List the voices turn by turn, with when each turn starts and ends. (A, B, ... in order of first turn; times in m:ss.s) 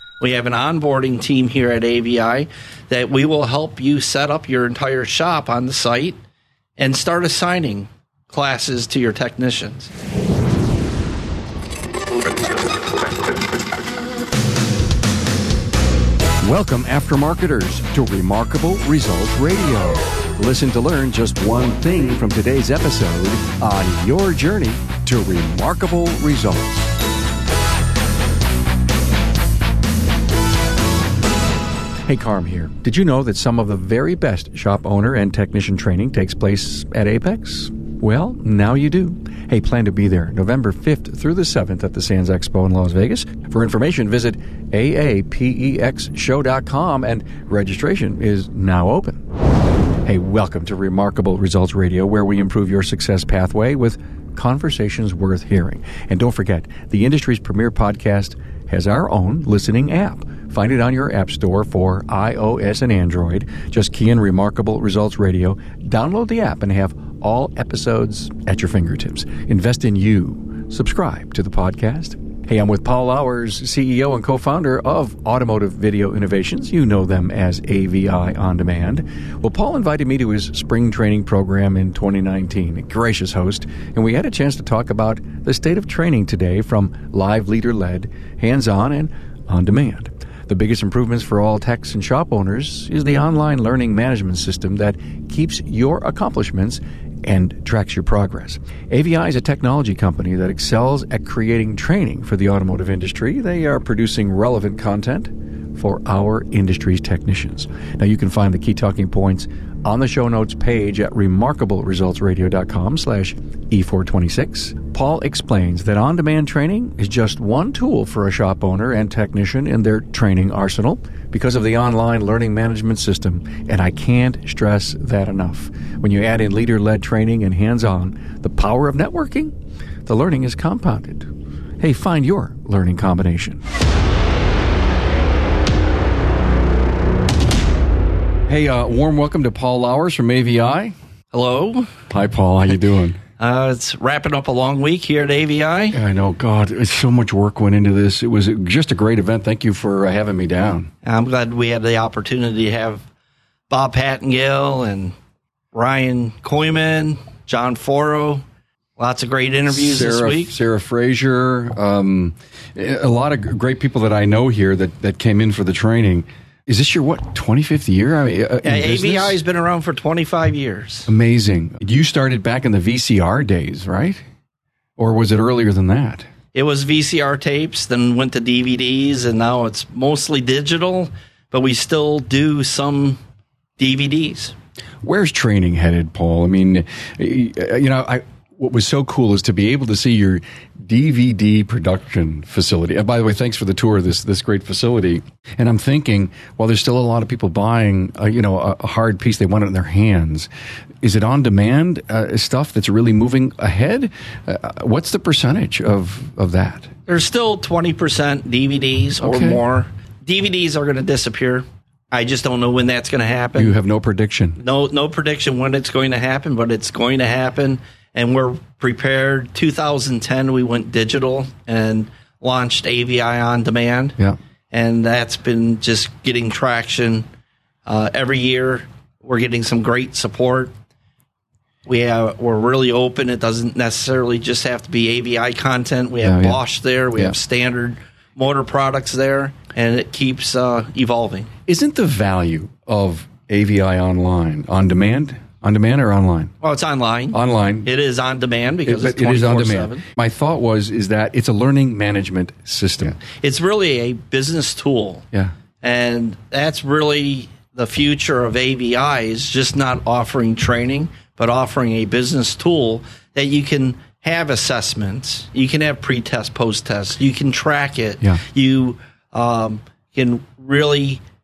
0:00.2-0:06.2 A
0:06.8-0:09.9 A
0:16.4-0:26.9 B
0:32.1-0:49.2 B
0:50.0-2:09.5 B
2:10.1-2:13.6 B
2:18.5-2:20.9 B
2:21.3-2:21.9 A
2:22.1-2:23.2 B
2:23.4-2:26.0 A
2:25.9-2:30.9 B
2:31.0-2:33.0 A
2:33.7-2:35.2 A
2:35.7-2:38.4 A
2:39.0-2:40.6 A
2:39.7-2:49.4 B
2:48.6-2:51.1 A
2:51.1-2:54.2 B
2:55.0-2:56.3 B
2:56.5-3:03.2 A
3:03.8-3:04.6 A
3:05.0-3:20.5 B
3:21.0-3:26.9 B
3:27.1-3:33.8 A
3:29.2-3:29.6 B
3:33.6-3:34.6 B
3:34.6-3:44.2 A
3:44.7-3:47.2 A
3:47.9-3:50.7 A
3:51.9-4:01.5 A
3:56.2-3:56.6 B
4:01.7-4:06.5 B
4:06.6-4:10.0 A
4:07.3-4:07.9 B
4:08.8-4:13.2 B
4:13.4-4:15.2 A
4:15.8-4:31.2 A